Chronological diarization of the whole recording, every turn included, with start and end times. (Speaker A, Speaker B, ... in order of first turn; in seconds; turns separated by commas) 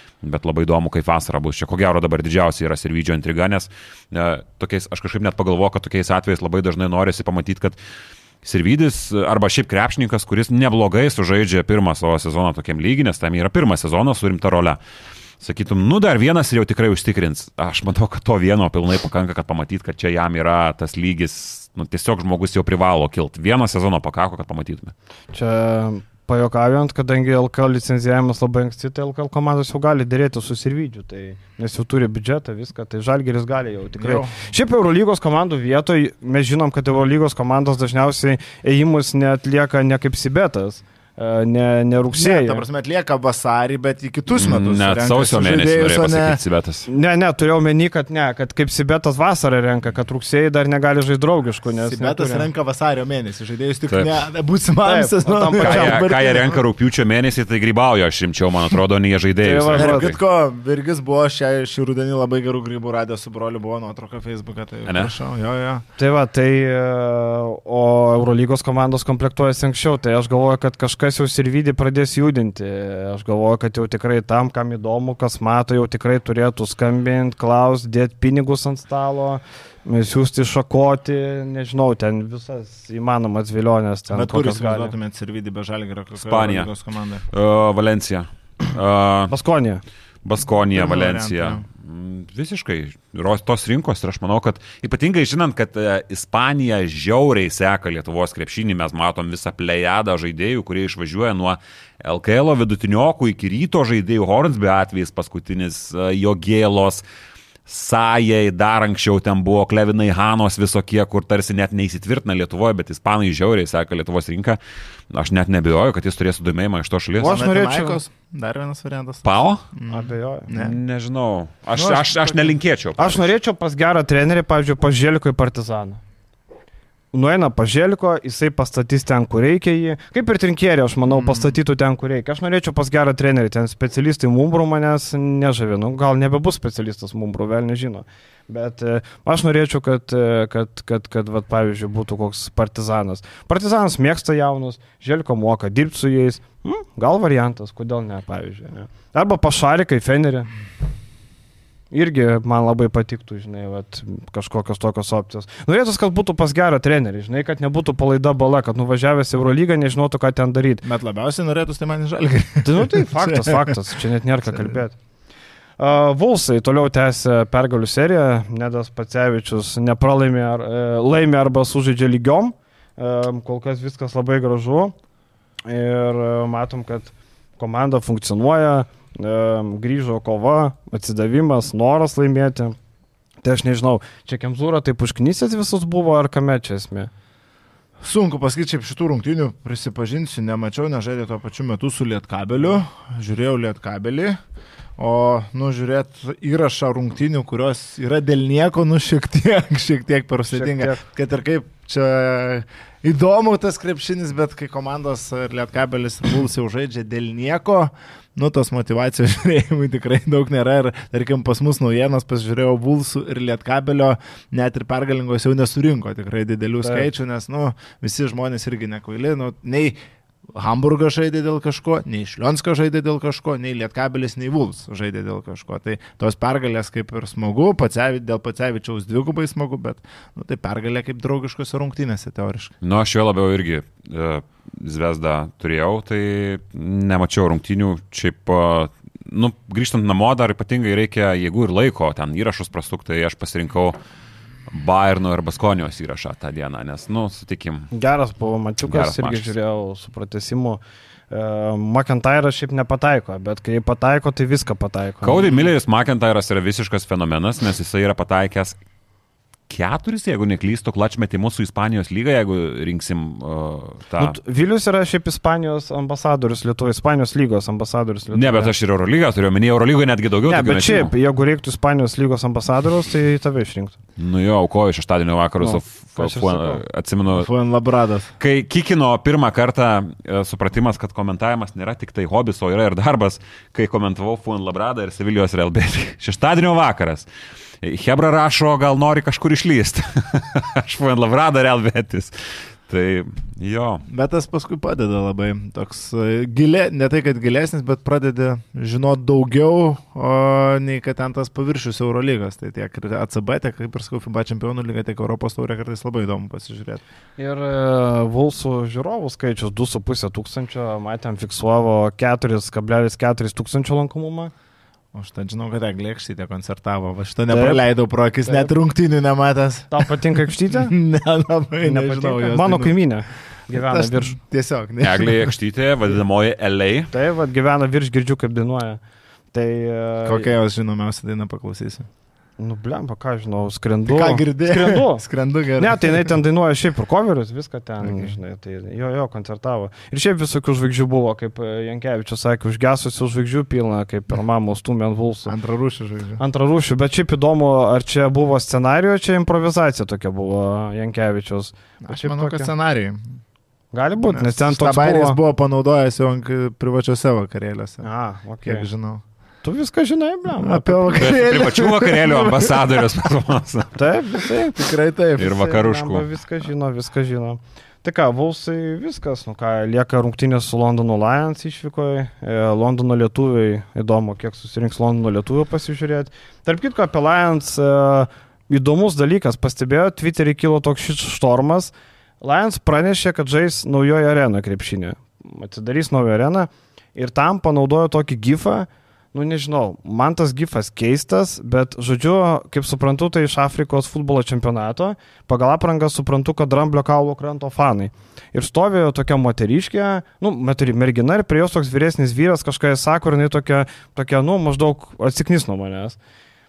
Speaker A: 0.2-7.8, Speaker A: 8.4-14.8, Speaker A: 15.4-24.9, Speaker B: 25.3-42.6, Speaker C: 34.0-34.4, Speaker C: 42.1-46.4, Speaker A: 44.3-46.9, Speaker B: 46.9-52.5, Speaker C: 51.8-56.6, Speaker B: 54.8-56.1, Speaker A: 55.6-60.2, Speaker B: 59.4-60.1, Speaker C: 59.7-65.8, Speaker A: 64.8-65.1, Speaker B: 66.0-84.9, Speaker C: 84.1-87.2, Speaker A: 86.2-86.7, Speaker A: 87.3-89.3, Speaker B: 89.3-89.8, Speaker A: 90.2-107.0, Speaker C: 90.7-91.6, Speaker A: 107.7-114.6, Speaker A: 115.1-117.4, Speaker B: 117.2-118.0, Speaker C: 117.2-120.8, Speaker A: 119.2-119.6, Speaker B: 119.9-120.5, Speaker A: 120.5-123.2, Speaker C: 121.7-122.5, Speaker B: 123.0-126.0, Speaker B: 127.1-150.5, Speaker C: 131.1-131.6, Speaker B: 151.9-160.8, Speaker C: 160.8-163.8, Speaker B: 162.6-164.9, Speaker C: 164.5-164.7, Speaker B: 165.8-174.9, Speaker B: 175.7-182.8, Speaker B: 183.4-187.1, Speaker C: 188.0-194.4, Speaker C: 195.0-219.9, Speaker B: 200.5-201.0, Speaker C: 220.5-232.7, Speaker A: 232.8-244.0, Speaker A: 244.7-247.9, Speaker B: 247.9-255.7, Speaker A: 248.8-249.5, Speaker A: 255.2-258.8, Speaker A: 259.7-264.4, Speaker B: 264.2-268.7, Speaker A: 268.3-271.1, Speaker B: 270.4-273.9, Speaker A: 274.2-277.5, Speaker B: 275.6-276.8, Speaker C: 277.3-278.3, Speaker A: 278.4-287.3, Speaker A: 287.8-294.0, Speaker C: 294.1-307.0, Speaker B: 307.4-314.5, Speaker C: 315.1-322.9, Speaker B: 317.5-317.8, Speaker B: 319.9-320.9, Speaker B: 321.8-324.4, Speaker C: 323.7-325.5, Speaker A: 325.0-327.1, Speaker B: 327.1-329.0, Speaker B: 329.5-330.5, Speaker C: 330.2-332.1, Speaker B: 332.6-335.2, Speaker C: 334.1-336.4, Speaker B: 335.8-345.5, Speaker C: 338.0-338.4, Speaker C: 345.4-346.4, Speaker B: 346.4-352.7, Speaker C: 352.0-353.2, Speaker B: 353.9-355.4, Speaker C: 354.2-358.1, Speaker B: 358.0-358.9, Speaker C: 358.6-359.2, Speaker B: 359.6-361.4, Speaker C: 360.6-362.8, Speaker A: 361.1-364.0, Speaker B: 363.9-364.8, Speaker C: 364.7-365.8, Speaker A: 365.4-366.3, Speaker B: 365.4-406.2